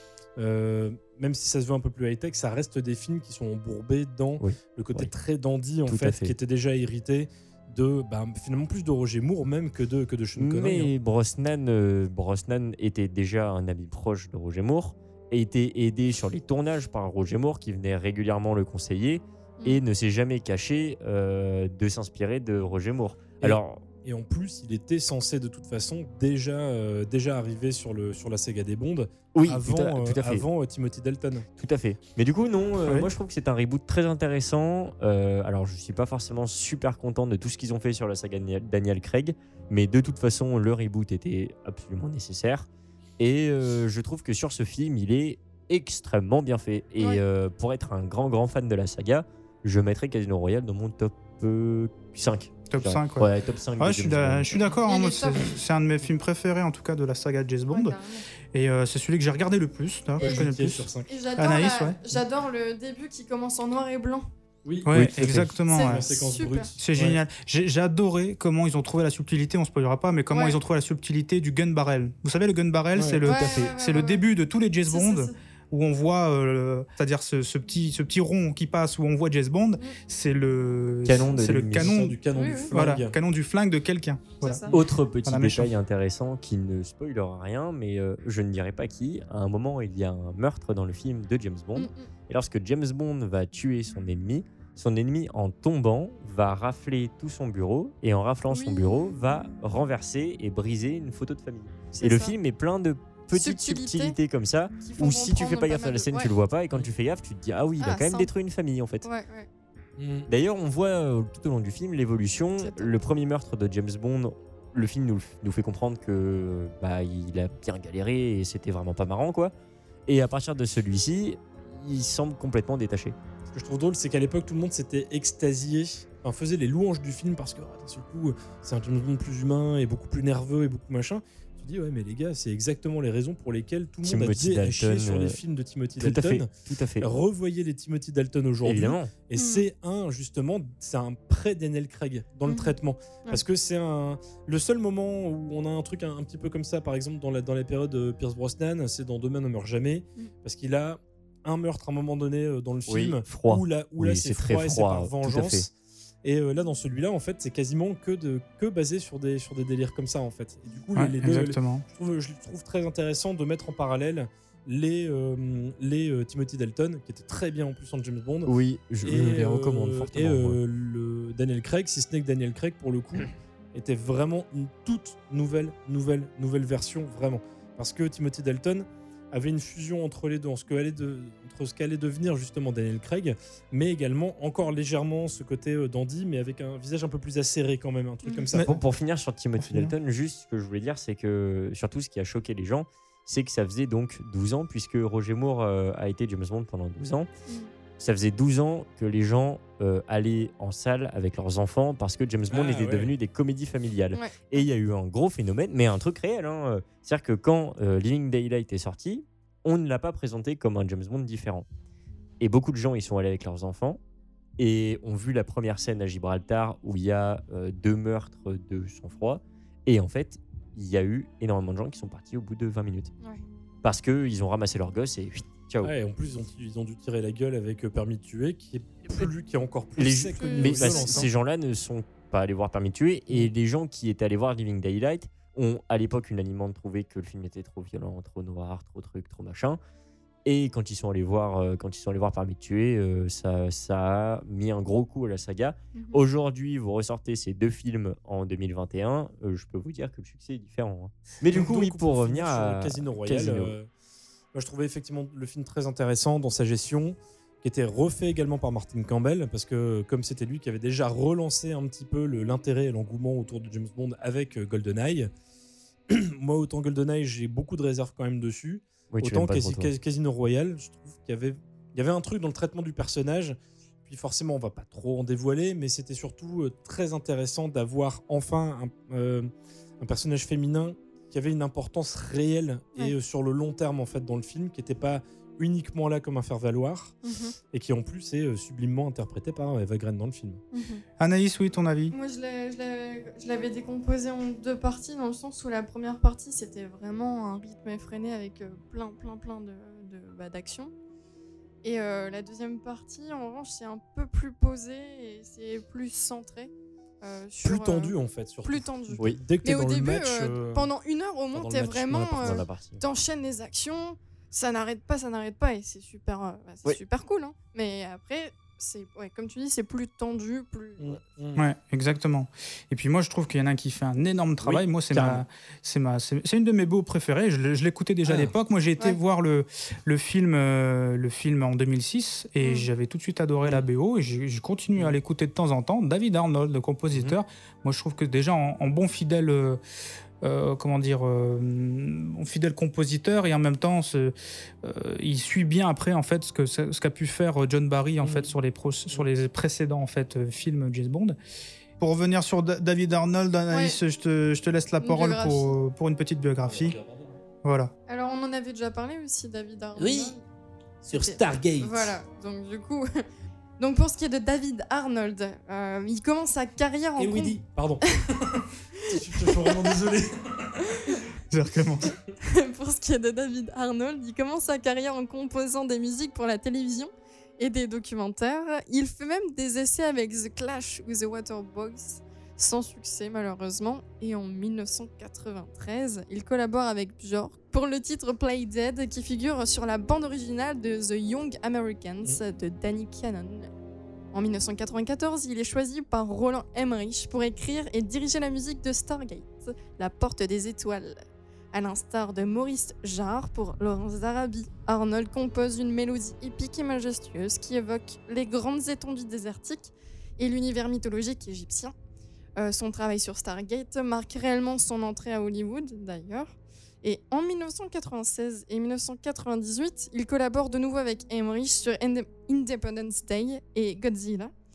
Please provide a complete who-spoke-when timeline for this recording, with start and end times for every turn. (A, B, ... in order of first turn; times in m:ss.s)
0:00.4-0:10.9 A
0:04.4-0:05.1 B
0:05.9-0:06.3 B
0:10.4-0:23.8 B
0:23.4-0:31.5 A
0:29.3-0:30.4 B
0:31.6-0:42.7 B
0:43.2-0:54.6 B
0:52.7-0:58.0 C
0:54.8-0:55.6 D
0:57.7-0:58.2 D
0:58.5-1:02.2 C
1:00.2-1:00.4 D
1:00.2-1:01.1 A
1:01.1-1:04.3 D
1:04.6-1:07.2 A
1:04.8-1:06.0 C
1:04.9-1:05.5 B
1:05.7-1:06.7 D
1:06.8-1:22.2 C
1:12.9-1:13.3 A
1:13.2-1:14.2 D
1:14.9-1:15.3 D
1:21.0-1:22.0 B
1:21.7-1:23.2 A
1:22.3-1:22.7 D
1:22.7-1:24.7 C
1:24.4-1:24.7 D
1:24.7-1:49.0 B
1:25.2-1:25.7 C
1:31.7-1:32.1 D
1:38.5-1:39.1 D
1:41.9-1:42.4 D
1:43.3-1:44.2 D
1:44.8-1:46.3 D
1:47.8-1:48.3 D
1:49.0-1:49.5 D
1:50.0-1:50.3 A
1:50.3-1:59.5 B
1:52.6-1:52.9 D
2:00.1-2:03.1 B
2:03.5-2:16.5 A
2:14.0-2:15.4 B
2:16.0-2:17.1 B
2:17.0-2:35.7 A
2:18.6-2:19.1 B
2:19.4-2:19.6 D
2:22.4-2:22.7 D
2:32.9-2:35.7 B
2:36.2-2:48.5 A
2:41.0-2:41.8 C
2:48.4-2:50.6 B
2:49.0-3:08.7 A
3:08.5-3:08.8 C
3:08.6-3:17.3 B
3:09.6-3:09.9 C
3:18.0-3:31.7 B
3:22.5-3:23.1 A
3:24.1-3:24.7 D
3:32.4-3:34.0 B
3:34.6-3:43.1 B
3:43.8-3:45.9 B
3:45.8-3:51.3 A
3:50.0-3:59.8 B
3:50.4-3:51.3 D
4:00.4-4:13.8 B
4:05.9-4:06.2 D
4:11.4-4:13.9 A
4:14.5-4:25.3 A
4:26.1-4:47.2 A
4:29.1-4:29.9 B
4:47.2-4:47.5 D
4:47.7-4:50.6 A
4:50.7-4:51.0 D
4:51.2-4:52.1 C
4:52.1-5:00.9 D
5:01.8-5:06.7 D
5:07.2-5:21.2 D
5:07.6-5:10.9 A
5:11.5-5:12.6 A
5:12.1-5:13.0 B
5:21.0-5:21.7 A
5:21.6-5:39.8 C
5:24.6-5:25.4 A
5:28.2-5:28.5 A
5:32.6-5:32.9 D
5:40.4-5:51.4 C
5:48.2-5:48.5 A
5:52.0-5:57.0 C
5:53.7-5:54.0 D
5:55.0-5:55.8 D
5:56.6-5:57.4 A
5:57.6-5:57.9 C
5:58.1-6:00.4 D
6:00.0-6:00.3 A
6:01.0-6:02.1 A
6:01.1-6:03.2 D
6:03.8-6:07.6 D
6:07.2-6:11.2 A
6:09.3-6:09.8 D
6:11.5-6:12.1 C
6:12.4-6:33.7 D
6:34.3-6:41.2 D
6:41.7-6:51.9 D
6:52.6-7:04.5 D